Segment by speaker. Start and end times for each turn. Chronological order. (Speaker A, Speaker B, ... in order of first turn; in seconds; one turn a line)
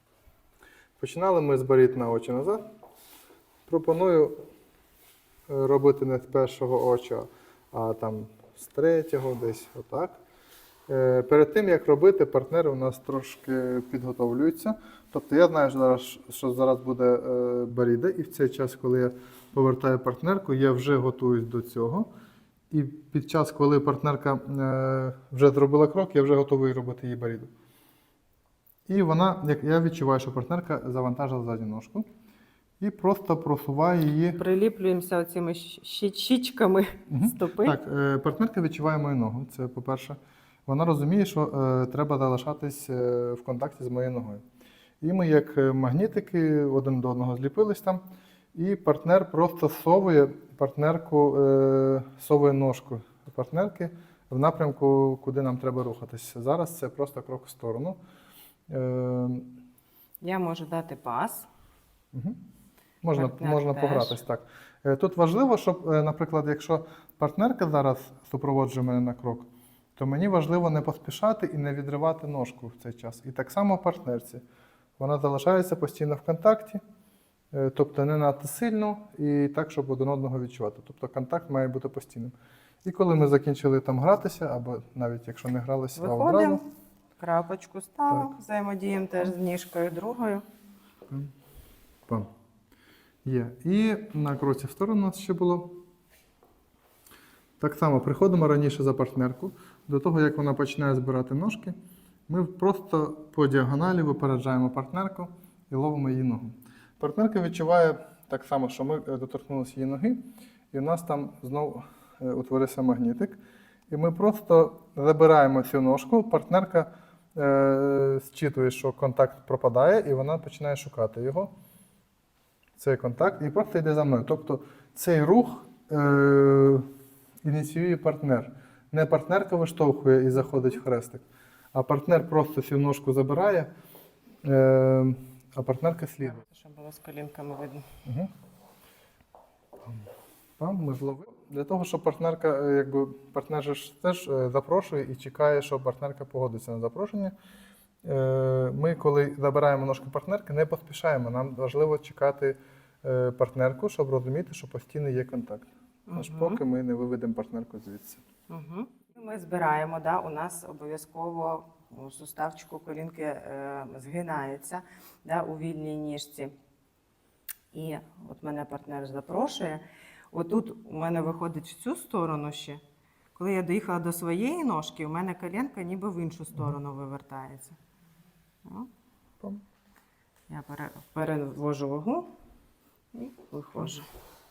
Speaker A: 1.0-2.6
Speaker A: 3.7-4.4
Speaker A: 5.5-10.2
Speaker A: 10.9-22.1
Speaker A: 22.7-27.5
Speaker A: 28.9-32.0
Speaker A: 32.8-34.4
Speaker B: 34.4-37.8
Speaker A: 37.1-44.4
Speaker A: 45.0-48.0
Speaker A: 48.5-58.0
Speaker A: 58.7-59.5
Speaker B: 60.2-61.5
Speaker A: 62.1-62.4
Speaker A: 63.0-74.4
Speaker B: 63.1-64.2
Speaker A: 75.0-76.8
Speaker A: 77.5-86.6
Speaker B: 86.0-86.6
Speaker B: 87.2-90.4
Speaker A: 93.2-95.8
Speaker A: 97.6-101.7
Speaker A: 102.3-110.2
Speaker A: 110.7-113.4
Speaker A: 113.9-121.5
Speaker A: 122.8-126.9
Speaker A: 127.4-133.7
Speaker A: 134.4-136.4
Speaker B: 136.2-137.9
Speaker A: 138.0-138.3
Speaker A: 140.6-147.3
Speaker A: 148.0-158.2
Speaker B: 156.1-156.6
Speaker B: 158.5-166.5
Speaker B: 167.7-172.8
Speaker B: 173.3-177.8
Speaker B: 178.6-178.9
Speaker B: 180.5-182.3
Speaker B: 183.1-184.1